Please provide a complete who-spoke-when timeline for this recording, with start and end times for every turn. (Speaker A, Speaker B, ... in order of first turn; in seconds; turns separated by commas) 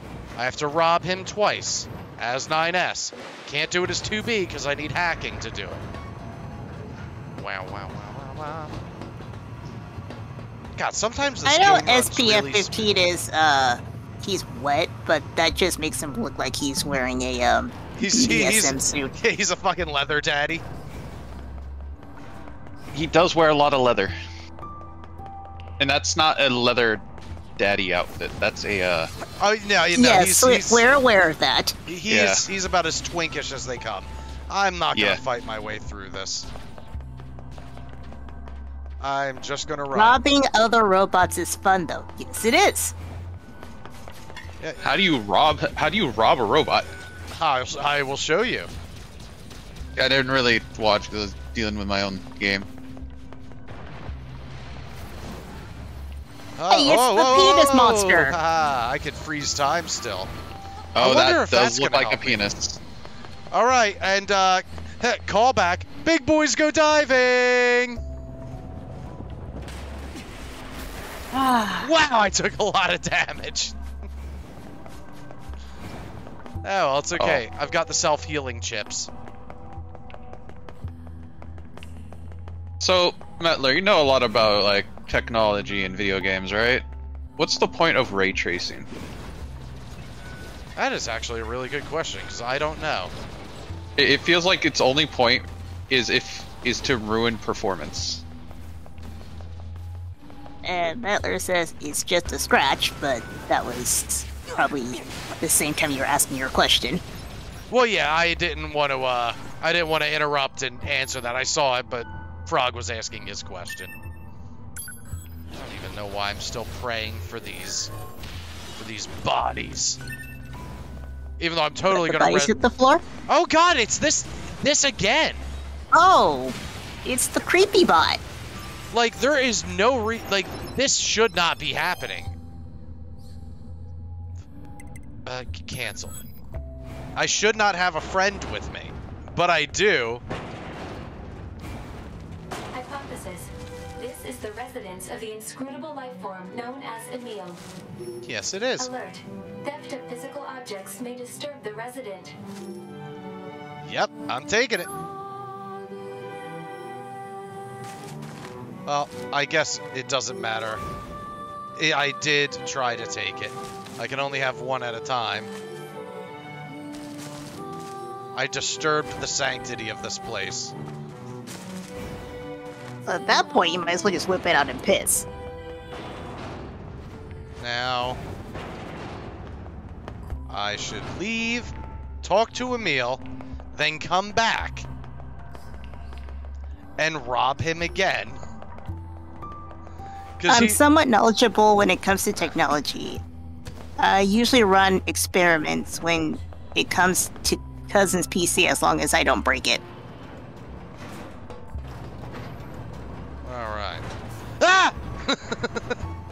Speaker A: 0.3-5.8, Speaker A: 7.3-8.7, Speaker A: 10.8-12.9, Speaker B: 11.4-19.1, Speaker A: 18.0-20.6, Speaker C: 22.9-24.1, Speaker C: 25.8-27.0, Speaker C: 27.6-29.1, Speaker A: 29.4-30.8, Speaker B: 29.9-31.7, Speaker A: 31.9-36.5, Speaker C: 32.1-32.4, Speaker C: 34.9-35.2, Speaker A: 39.0-40.2, Speaker B: 39.9-42.9, Speaker C: 44.8-46.9, Speaker A: 47.3-48.7, Speaker C: 50.0-52.7, Speaker A: 56.6-60.3, Speaker B: 56.7-58.3, Speaker A: 60.9-62.4, Speaker C: 61.0-62.8, Speaker A: 63.5-68.0, Speaker B: 71.3-71.9, Speaker A: 71.8-73.7, Speaker A: 76.6-79.1, Speaker C: 77.1-77.4, Speaker C: 82.8-86.8, Speaker C: 87.4-88.9, Speaker A: 90.8-93.1, Speaker C: 94.0-98.2, Speaker B: 100.6-107.0, Speaker A: 107.7-113.9, Speaker A: 115.5-117.9, Speaker A: 118.8-120.0, Speaker A: 121.4-122.5, Speaker B: 121.9-123.0, Speaker A: 123.3-125.5, Speaker B: 125.9-128.2, Speaker A: 128.9-132.3, Speaker A: 135.2-136.3, Speaker A: 137.2-140.2, Speaker D: 142.7-147.6, Speaker A: 148.2-148.9, Speaker D: 148.8-152.3, Speaker A: 153.8-154.9, Speaker A: 158.8-160.8, Speaker A: 161.8-165.5, Speaker A: 168.3-170.7, Speaker B: 173.1-175.2, Speaker A: 177.6-178.2, Speaker A: 180.5-183.2, Speaker A: 183.7-184.8, Speaker A: 187.0-188.4, Speaker A: 190.4-190.8, Speaker B: 190.5-193.2, Speaker B: 194.0-199.8, Speaker A: 203.4-204.0, Speaker A: 204.6-205.9